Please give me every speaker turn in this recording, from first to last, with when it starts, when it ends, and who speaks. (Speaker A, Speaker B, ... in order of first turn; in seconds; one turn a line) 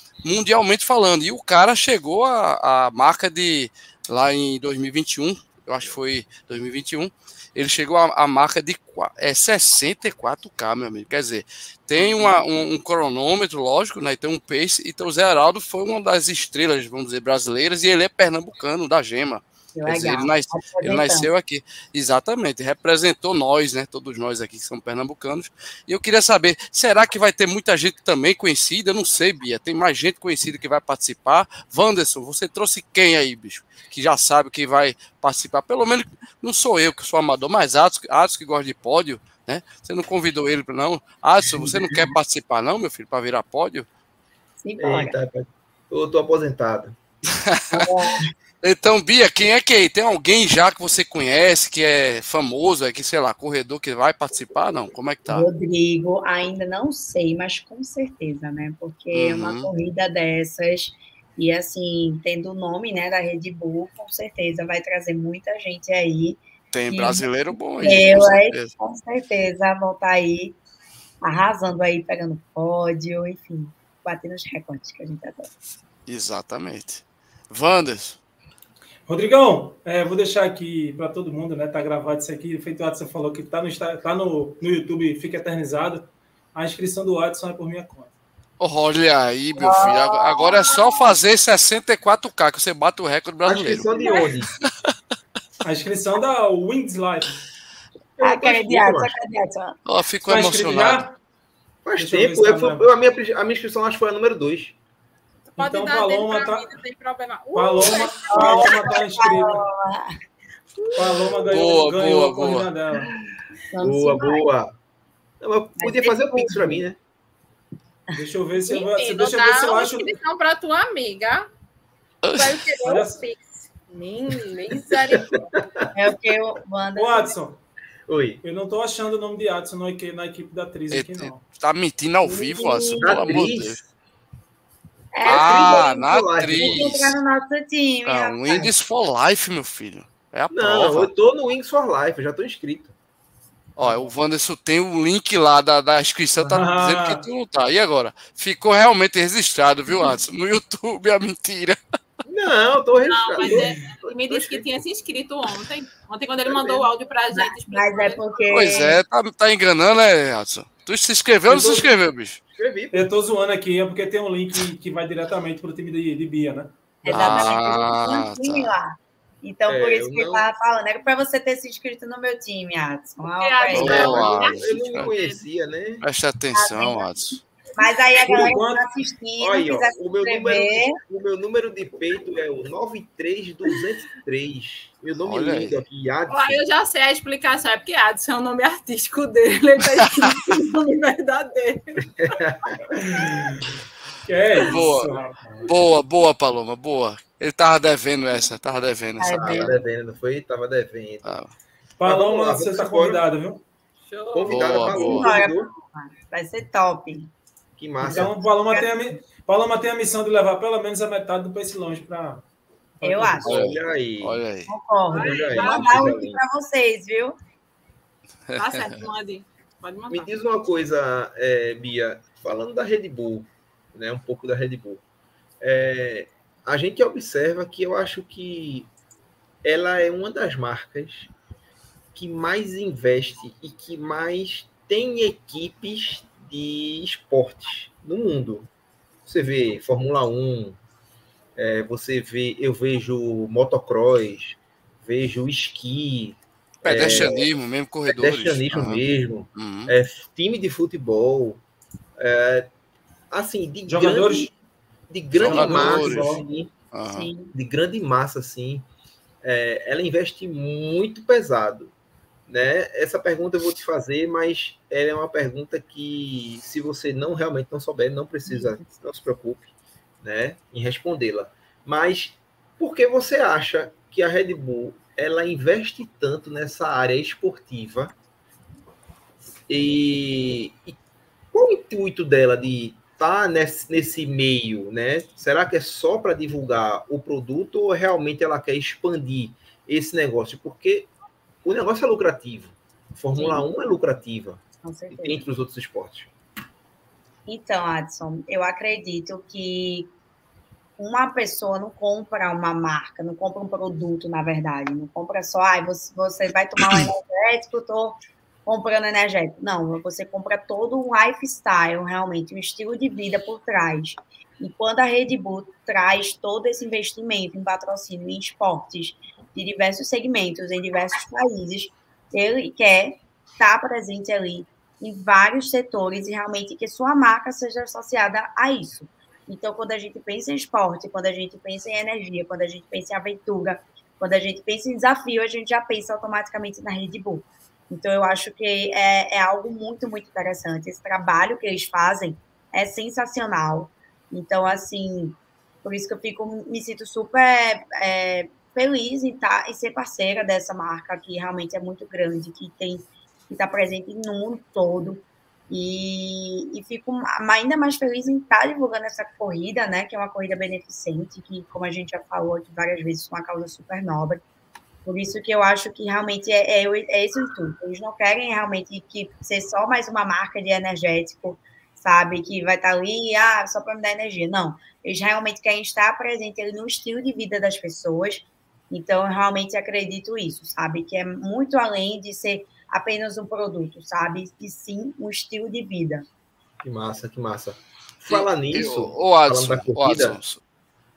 Speaker A: 0.2-43.9
Speaker B: 19.7-21.3
Speaker B: 44.6-45.2
Speaker C: 44.8-47.0
Speaker A: 47.5-47.9
Speaker B: 47.7-48.3
Speaker A: 48.6-55.5
Speaker B: 55.3-67.2
Speaker A: 59.1-59.7
Speaker A: 66.7-68.7
Speaker B: 67.7-70.6
Speaker B: 71.2-75.5
Speaker A: 76.1-78.2
Speaker D: 79.1-88.1
Speaker A: 88.6-93.9
Speaker B: 89.5-90.8
Speaker C: 93.4-94.5
Speaker E: 94.0-94.2
Speaker D: 95.6-97.4
Speaker C: 98.2-99.1
Speaker B: 98.2-99.8
Speaker A: 99.9-101.0
Speaker D: 100.3-101.2
Speaker C: 101.8-104.8
Speaker D: 102.0-102.9
Speaker E: 105.5-109.2
Speaker D: 105.6-106.7
Speaker D: 107.5-109.6
Speaker B: 108.3-110.2
Speaker C: 110.8-111.4
Speaker D: 111.0-113.1
Speaker A: 111.5-112.7
Speaker B: 113.0-114.5
Speaker C: 113.8-114.7
Speaker C: 115.4-117.0
Speaker B: 115.8-116.8
Speaker D: 118.2-120.2
Speaker E: 118.6-121.5
Speaker A: 122.2-122.9
Speaker E: 122.4-125.5
Speaker D: 122.8-123.2
Speaker C: 125.1-125.8
Speaker B: 125.9-127.3
Speaker D: 127.0-127.6
Speaker C: 128.1-128.4
Speaker D: 128.4-131.4
Speaker A: 130.9-133.8
Speaker B: 132.2-133.4
Speaker C: 133.0-133.8
Speaker B: 135.1-136.0
Speaker C: 135.2-136.9
Speaker A: 135.2-137.2
Speaker B: 136.5-138.7
Speaker A: 138.1-141.1
Speaker C: 140.5-142.9
Speaker A: 143.8-151.8
Speaker D: 146.4-147.2
Speaker C: 152.3-154.7
Speaker E: 153.0-158.4
Speaker C: 156.5-156.9
Speaker B: 157.3-159.0
Speaker A: 158.5-162.4
Speaker C: 161.5-161.9
Speaker C: 162.5-163.1
Speaker D: 162.9-166.7
Speaker B: 167.0-174.3
Speaker A: 167.1-168.7
Speaker C: 169.7-170.4
Speaker E: 173.2-175.4
Speaker A: 173.7-175.1
Speaker C: 173.7-176.0
Speaker A: 176.0-177.4
Speaker B: 176.5-177.1
Speaker B: 177.8-180.9
Speaker D: 178.2-178.9
Speaker C: 179.4-186.6
Speaker A: 185.2-185.8
Speaker E: 186.3-192.1
Speaker A: 190.1-190.3
Speaker C: 192.2-192.8
Speaker D: 192.9-193.6
Speaker D: 194.2-195.7
Speaker A: 194.6-195.1
Speaker A: 195.7-199.8
Speaker B: 199.2-199.8
Speaker C: 199.3-201.4
Speaker A: 201.2-201.5
Speaker D: 202.0-203.6
Speaker C: 202.0-203.2
Speaker E: 204.1-205.1
Speaker C: 204.3-205.7
Speaker A: 204.4-205.4
Speaker B: 204.9-207.3
Speaker C: 207.8-208.3
Speaker D: 208.0-212.4
Speaker B: 208.1-209.0
Speaker D: 213.0-213.5
Speaker B: 213.0-213.5
Speaker C: 213.4-214.4
Speaker A: 213.4-214.7
Speaker B: 214.7-217.4
Speaker E: 215.1-216.2
Speaker C: 215.1-216.4
Speaker A: 218.5-218.9
Speaker E: 218.6-220.3
Speaker C: 220.1-225.0
Speaker C: 225.6-228.9
Speaker C: 229.6-231.3
Speaker C: 232.1-238.7
Speaker C: 239.3-240.8
Speaker C: 241.6-247.4
Speaker A: 246.8-249.0
Speaker C: 248.1-251.6
Speaker A: 249.6-249.9
Speaker C: 252.2-252.7
Speaker C: 253.3-254.5
Speaker D: 253.9-254.5
Speaker C: 255.1-256.7
Speaker A: 255.4-256.3
Speaker D: 255.5-256.4
Speaker A: 256.9-257.3
Speaker B: 257.1-257.5
Speaker C: 257.5-258.9
Speaker C: 259.4-261.9
Speaker C: 262.5-269.7
Speaker C: 270.2-278.1
Speaker C: 279.7-281.0
Speaker C: 281.5-291.1
Speaker C: 291.6-296.3
Speaker B: 293.4-293.6
Speaker B: 294.8-295.4
Speaker B: 297.5-300.1
Speaker B: 301.0-364.4
Speaker B: 365.1-386.3
Speaker C: 386.8-390.4
Speaker A: 388.3-390.6